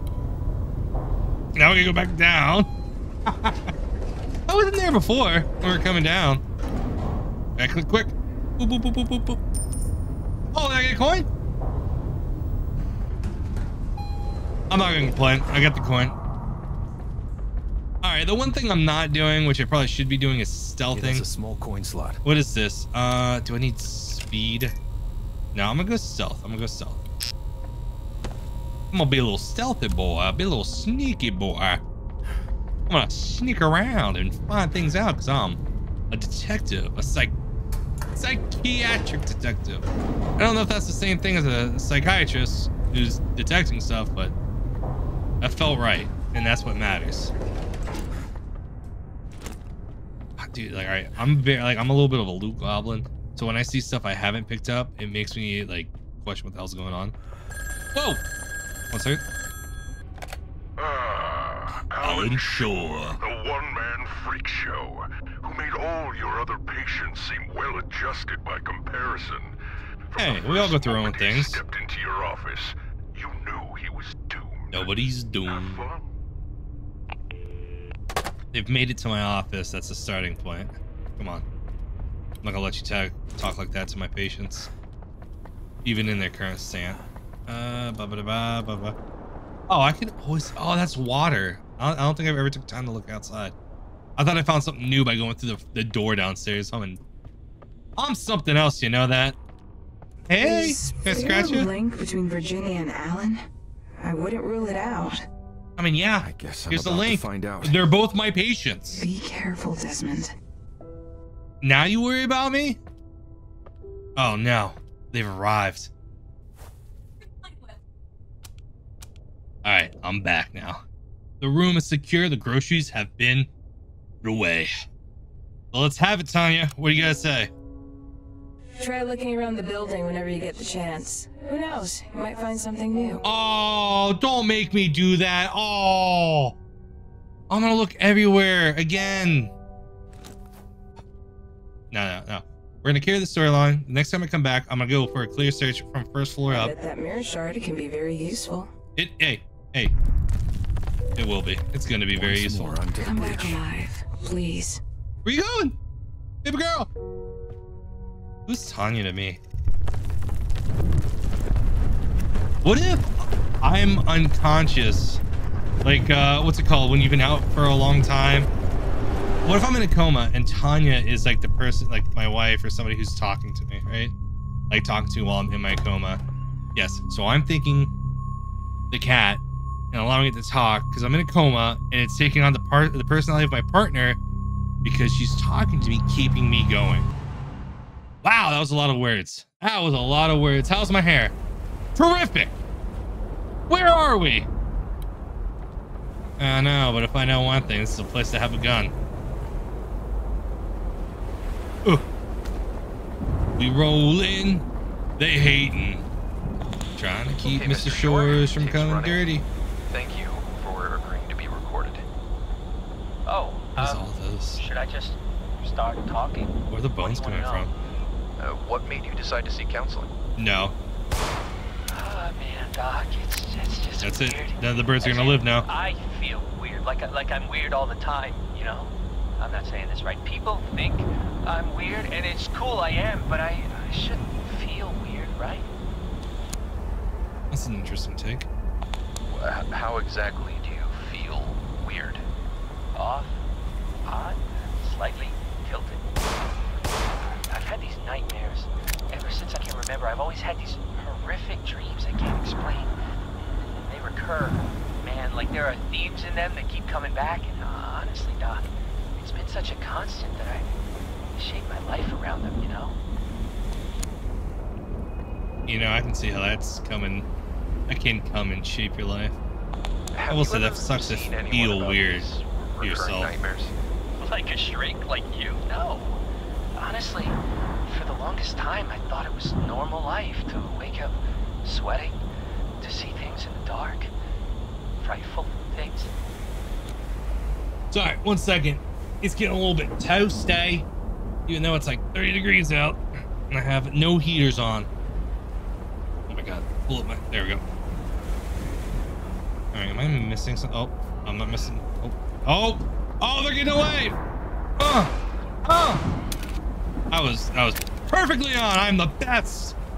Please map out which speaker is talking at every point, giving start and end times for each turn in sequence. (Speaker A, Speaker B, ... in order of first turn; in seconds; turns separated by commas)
Speaker A: 1.6-2.7, Speaker A: 3.3-3.7, Speaker A: 4.5-6.4, Speaker A: 7.6-9.4, Speaker A: 10.5-11.3, Speaker A: 14.7-16.2, Speaker A: 18.0-21.3, Speaker B: 20.9-22.2, Speaker A: 22.2-24.7, Speaker A: 25.5-27.0, Speaker A: 28.9-31.8, Speaker A: 32.9-35.6, Speaker A: 36.1-37.3, Speaker A: 38.1-39.9, Speaker A: 40.4-44.3, Speaker A: 45.4-47.3, Speaker A: 50.4-57.1, Speaker A: 58.0-58.2, Speaker A: 58.9-59.2, Speaker C: 60.8-69.5, Speaker A: 62.0-63.2, Speaker C: 70.1-76.1, Speaker A: 70.2-71.6, Speaker A: 74.7-75.9, Speaker A: 78.5-81.5, Speaker A: 82.4-84.7, Speaker A: 85.8-89.0, Speaker A: 89.7-93.5, Speaker A: 94.2-97.0, Speaker A: 98.0-99.4, Speaker A: 100.3-101.7, Speaker D: 100.4-103.5, Speaker D: 104.0-105.3, Speaker A: 105.8-109.0, Speaker B: 106.2-107.8, Speaker D: 108.9-110.3, Speaker A: 111.6-112.8, Speaker A: 114.2-115.9, Speaker A: 119.6-120.8, Speaker A: 121.4-123.5, Speaker A: 124.2-124.7, Speaker A: 125.7-127.5, Speaker D: 128.8-133.2, Speaker A: 133.2-136.6, Speaker A: 137.5-139.5, Speaker A: 141.9-146.7, Speaker D: 146.5-148.7, Speaker A: 148.9-149.9, Speaker A: 151.2-152.8, Speaker B: 152.1-153.6, Speaker D: 153.0-154.8, Speaker A: 155.2-155.8, Speaker A: 156.4-156.9, Speaker A: 158.5-159.4, Speaker A: 162.6-165.2, Speaker A: 165.8-168.5, Speaker A: 169.4-174.1, Speaker A: 174.7-176.2, Speaker A: 176.8-177.9, Speaker A: 178.9-184.2, Speaker A: 184.8-187.1, Speaker A: 188.2-191.3, Speaker A: 192.0-192.6, Speaker A: 193.7-194.5, Speaker A: 196.4-198.9, Speaker A: 203.6-204.7, Speaker A: 205.2-206.1, Speaker A: 207.0-209.4, Speaker E: 207.4-209.3, Speaker E: 209.9-212.0, Speaker F: 213.3-217.7, Speaker A: 213.8-214.6, Speaker A: 216.7-217.7, Speaker E: 218.4-220.1, Speaker A: 220.4-220.7, Speaker F: 221.9-235.7, Speaker A: 224.0-225.7, Speaker A: 237.5-238.5, Speaker E: 239.3-242.2, Speaker F: 242.9-243.4, Speaker F: 244.1-246.1, Speaker F: 247.5-260.7, Speaker F: 261.3-263.0, Speaker A: 265.7-267.3, Speaker A: 267.9-269.4, Speaker E: 270.1-273.7, Speaker A: 270.3-272.3, Speaker A: 272.8-273.4, Speaker F: 274.2-276.2, Speaker F: 276.8-282.2, Speaker F: 282.8-284.1, Speaker F: 285.0-286.1, Speaker A: 287.9-290.9, Speaker A: 291.5-294.9, Speaker A: 296.3-297.6, Speaker A: 299.7-304.2, Speaker A: 304.8-305.1, Speaker A: 305.6-306.0, Speaker A: 307.1-309.8